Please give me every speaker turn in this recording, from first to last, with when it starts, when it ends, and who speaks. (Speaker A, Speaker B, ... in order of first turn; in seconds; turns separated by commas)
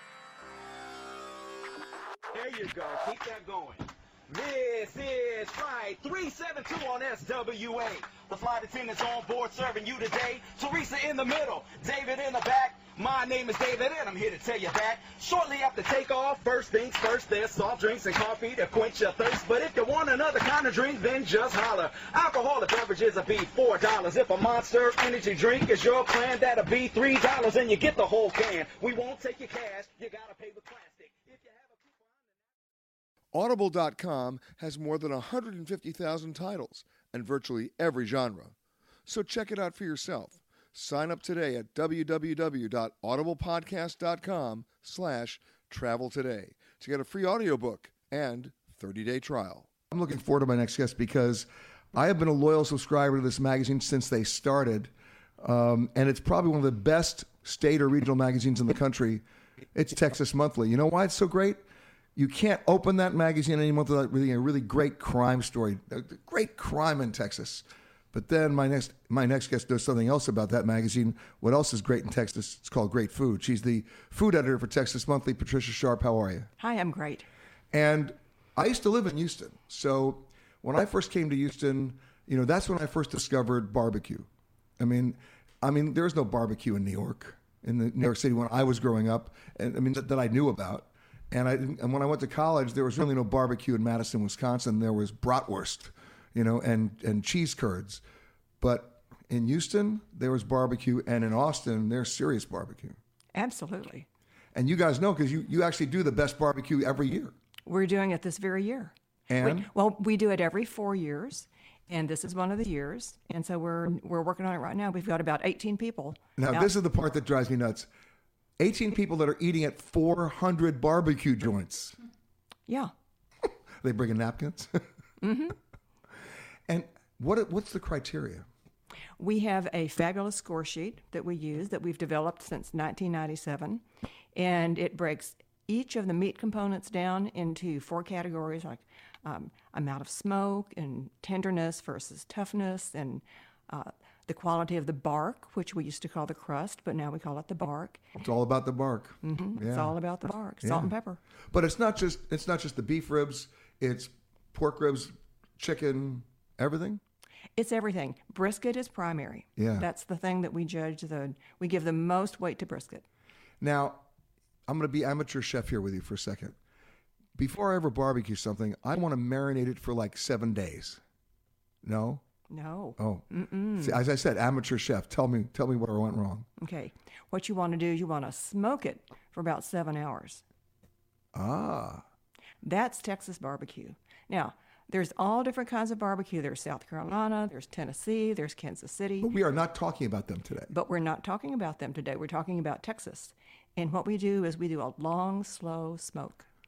Speaker A: 2.3-32.2, Speaker B: 33.3-38.5, Speaker B: 39.0-59.2, Speaker B: 59.7-61.6, Speaker B: 62.1-76.5, Speaker C: 76.6-77.3, Speaker B: 77.7-84.3, Speaker B: 84.8-98.0, Speaker B: 98.6-103.0, Speaker C: 103.3-104.0, Speaker B: 104.5-107.3, Speaker C: 107.7-116.7, Speaker B: 109.3-109.7, Speaker B: 116.4-117.9, Speaker B: 118.6-122.0, Speaker C: 122.7-122.9, Speaker B: 123.8-124.8, Speaker C: 125.2-125.5, Speaker B: 126.7-128.4, Speaker C: 129.2-133.8, Speaker C: 134.3-148.0, Speaker B: 148.1-149.9, Speaker C: 149.2-151.2, Speaker B: 150.6-150.9, Speaker B: 151.5-157.0, Speaker C: 157.6-163.0, Speaker B: 159.6-159.9, Speaker B: 163.6-164.0, Speaker B: 164.7-166.6, Speaker B: 167.3-171.0, Speaker B: 171.8-172.2, Speaker C: 172.5-174.0, Speaker B: 173.0-176.4, Speaker C: 176.6-180.4, Speaker B: 181.3-182.0, Speaker C: 182.6-189.3, Speaker B: 189.2-190.7, Speaker C: 190.7-196.5